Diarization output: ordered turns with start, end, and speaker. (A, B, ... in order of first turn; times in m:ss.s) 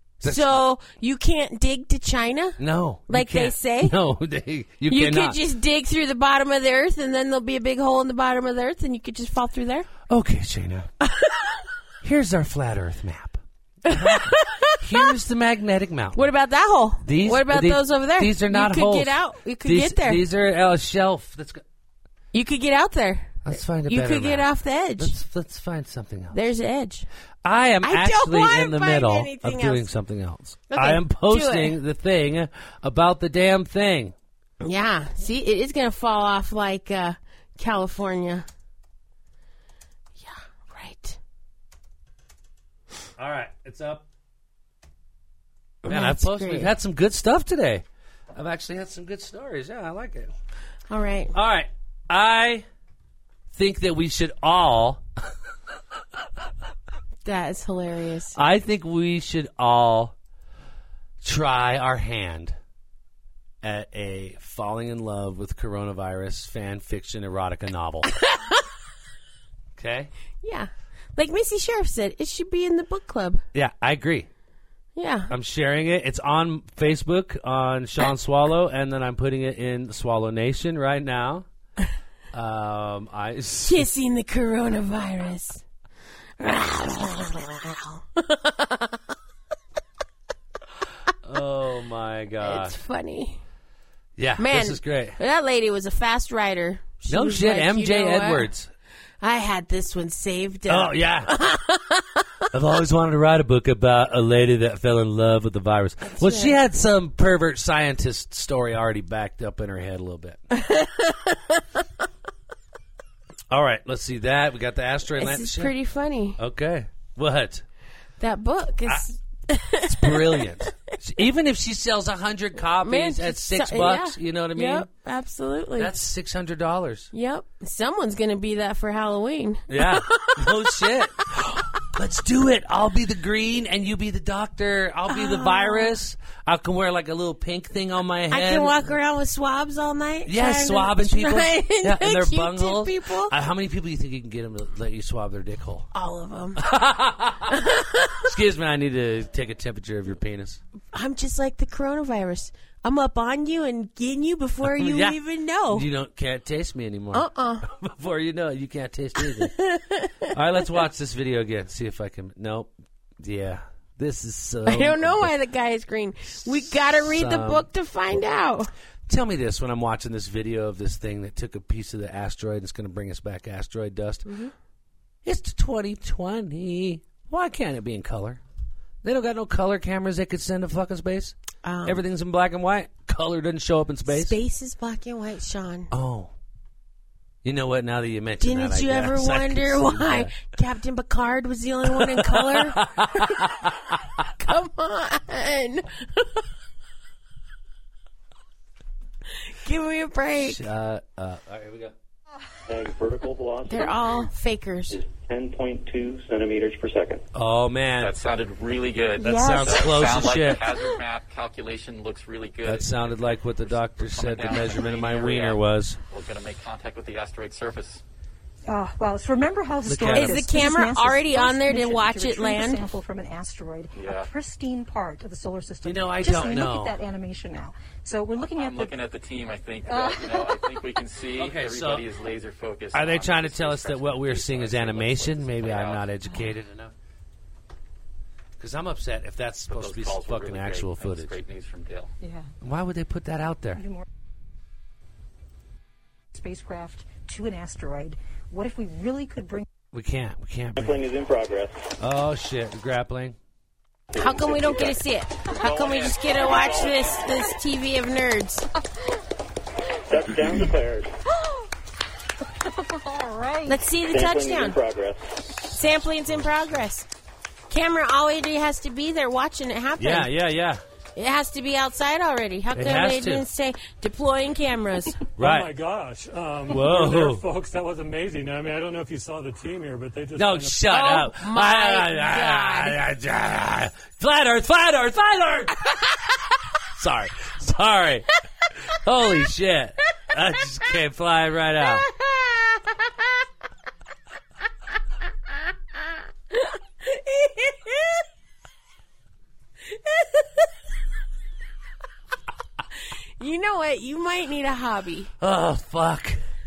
0:00.2-0:00.6 A
0:00.2-0:04.0 B
0:02.6-0:05.4 A
0:04.9-0:09.9 B
0:10.1-0:10.9 A
0:11.0-0:11.6 B
0:12.0-0:16.3 A
0:13.9-0:15.1 B
0:16.2-0:20.2 B
0:17.0-0:21.6 A
0:22.3-0:25.2 B
0:23.4-0:24.5 A
0:25.0-0:26.4 A
0:26.3-0:27.1 B
0:27.4-0:34.1 A
0:27.8-0:29.9 B
0:30.7-0:31.8 B
0:34.6-0:38.5 B
0:40.2-0:41.2 B
0:43.2-0:44.1 A
0:45.8-0:46.7 B
0:45.9-0:50.3 A
0:50.9-0:51.3 B
0:51.3-0:52.6 A
0:53.5-0:55.0 A
0:57.2-0:58.4 B
0:58.4-1:00.1 A
1:01.2-1:02.6 A
1:03.6-1:08.1 A
1:08.1-1:08.7 B
1:09.8-1:10.1 A
1:10.4-1:13.4 B
1:13.5-1:14.3 A
1:15.0-1:15.3 B
1:15.3-1:21.5 A
1:22.3-1:23.9 A
1:23.6-1:25.6 B
1:26.4-1:29.0 B
1:31.2-1:32.8 A
1:32.4-1:33.4 B
1:34.2-1:35.2 A
1:34.4-1:38.5 B
1:37.1-1:38.7 A
1:39.2-1:42.3 B
1:40.7-1:41.3 A
1:42.5-1:50.4 A
1:46.0-1:46.6 B
1:50.5-1:51.8 B
1:53.5-1:55.7 A
1:55.2-1:56.4 B
1:56.4-1:57.6 A
1:58.2-2:00.9 B
1:59.8-2:04.9 A
2:02.8-2:05.9 B
2:05.8-2:07.1 A
2:07.1-2:11.6 B
2:09.7-2:18.8 A
2:15.1-2:16.0 B
2:18.3-2:23.3 B
2:20.3-2:25.9 A
2:25.9-2:26.7 B
2:26.6-2:27.6 A
2:27.5-2:28.3 B
2:28.2-2:30.6 A
2:30.9-2:35.9 B
2:34.6-2:35.2 A
2:35.7-2:39.5 A
2:37.1-2:37.7 B
2:39.2-2:40.4 B
2:40.3-2:45.3 A
2:44.7-2:48.7 B
2:46.4-2:47.7 A
2:49.1-2:54.3 A
2:54.3-2:54.5 B
2:55.2-2:58.4 A
2:59.0-3:04.4 A
3:01.6-3:02.0 B
3:04.1-3:05.9 B
3:05.9-3:06.3 A
3:07.4-3:10.4 A
3:08.4-3:13.7 B
3:11.9-3:13.9 A
3:14.4-3:16.5 B
3:19.5-3:20.7 B
3:20.4-3:22.0 A
3:22.7-3:24.0 C
3:23.7-3:25.0 B
3:24.9-3:27.2 C
3:27.3-3:28.2 A
3:28.0-3:38.0 D
3:29.2-3:30.7 A
3:29.2-3:29.8 B
3:32.6-3:36.0 A
3:38.7-3:48.9 E
3:39.8-3:40.4 A
3:40.1-3:42.8 B
3:44.0-3:44.3 D
3:45.8-3:47.0 A
3:48.4-3:56.1 D
3:49.9-3:50.7 E
3:51.4-3:52.0 A
3:52.9-3:56.9 A
3:58.6-4:01.4 A
3:59.7-4:02.1 D
4:02.2-4:02.5 E
4:02.6-4:03.8 A
4:03.8-4:04.0 E
4:06.3-4:09.7 E
4:09.9-4:11.0 A
4:10.8-4:11.9 C
4:12.0-4:13.4 A
4:14.1-4:15.0 C
4:14.2-4:18.7 B
4:15.6-4:17.1 C
4:15.7-4:17.0 D
4:20.1-4:21.2 C
4:22.5-4:23.8 E
4:23.7-4:24.8 B
4:24.1-4:25.7 C
4:25.7-4:27.1 B
4:27.7-4:30.3 B
4:30.0-4:30.8 A
4:31.2-4:35.2 B
4:32.7-4:33.4 A
4:35.4-4:35.7 A
4:35.4-4:41.2 F
4:36.7-4:37.4 A
4:40.4-4:45.9 A
4:40.9-4:43.0 B
4:47.0-4:48.3 A
4:48.9-4:52.1 A
4:52.0-4:53.3 B
4:55.5-4:58.3 B
4:59.8-5:00.7 B
5:03.4-5:05.3 B
5:05.4-5:06.4 A